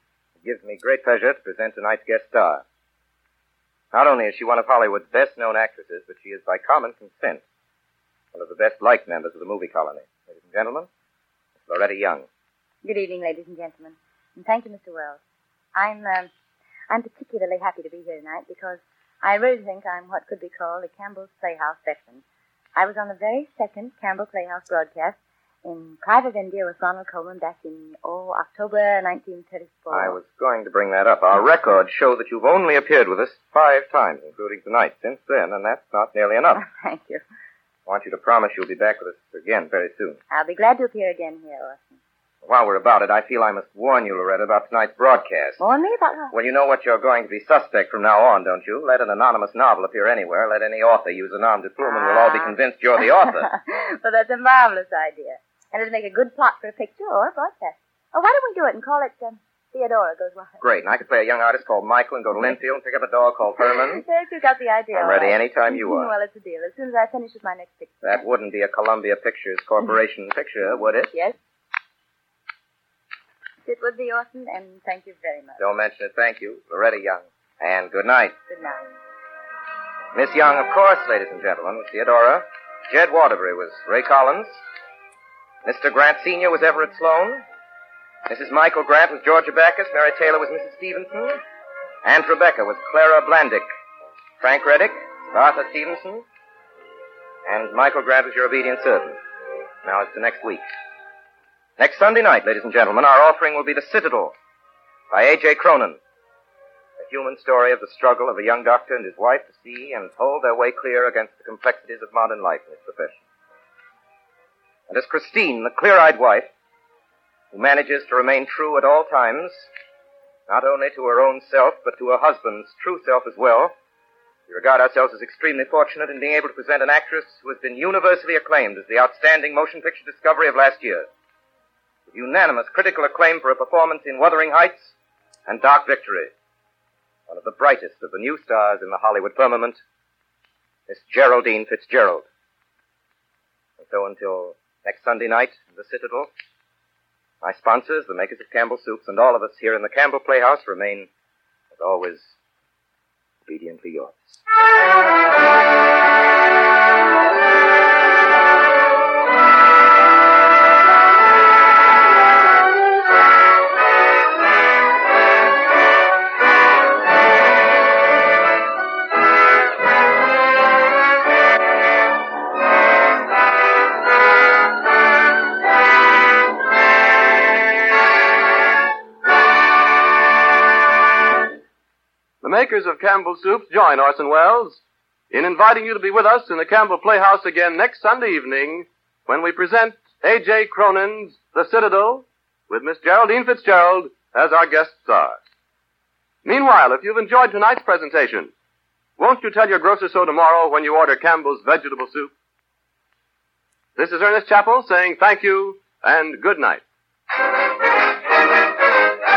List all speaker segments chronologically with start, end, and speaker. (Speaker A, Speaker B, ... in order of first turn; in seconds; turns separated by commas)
Speaker A: 0.4-2.6, Speaker A: 3.9-7.4, Speaker A: 8.3-10.9, Speaker A: 11.6-12.3, Speaker B: 12.8-15.2, Speaker B: 15.8-16.3, Speaker B: 16.9-22.2, Speaker B: 22.8-30.2, Speaker A: 29.9-36.6, Speaker B: 36.6-37.2, Speaker A: 37.9-40.2, Speaker B: 40.3-41.8, Speaker A: 42.4-45.6, Speaker B: 45.6-46.3, Speaker A: 46.3-53.5, Speaker B: 51.8-60.6, Speaker A: 60.6-64.0, Speaker B: 63.9-68.3, Speaker A: 64.9-66.1, Speaker A: 68.0-71.1, Speaker B: 73.7-75.6, Speaker A: 75.6-78.4, Speaker B: 78.5-78.9, Speaker A: 80.1-84.6, Speaker A: 85.6-87.4, Speaker A: 88.3-91.4, Speaker A: 92.0-93.7, Speaker A: 94.4-96.2, Speaker A: 97.5-99.2, Speaker A: 99.8-100.6, Speaker A: 101.8-104.4, Speaker A: 105.1-106.0, Speaker A: 107.0-113.2, Speaker A: 114.9-116.5, Speaker A: 117.5-119.7, Speaker A: 120.5-123.8, Speaker A: 124.5-131.1, Speaker A: 132.1-135.0, Speaker A: 135.5-136.3, Speaker A: 137.3-139.8, Speaker A: 140.9-142.3, Speaker A: 143.8-146.3, Speaker A: 147.4-151.1, Speaker A: 151.7-152.4, Speaker A: 153.5-154.4, Speaker C: 182.4-195.4, Speaker C: 196.4-198.5, Speaker C: 199.2-202.3, Speaker C: 204.0-206.8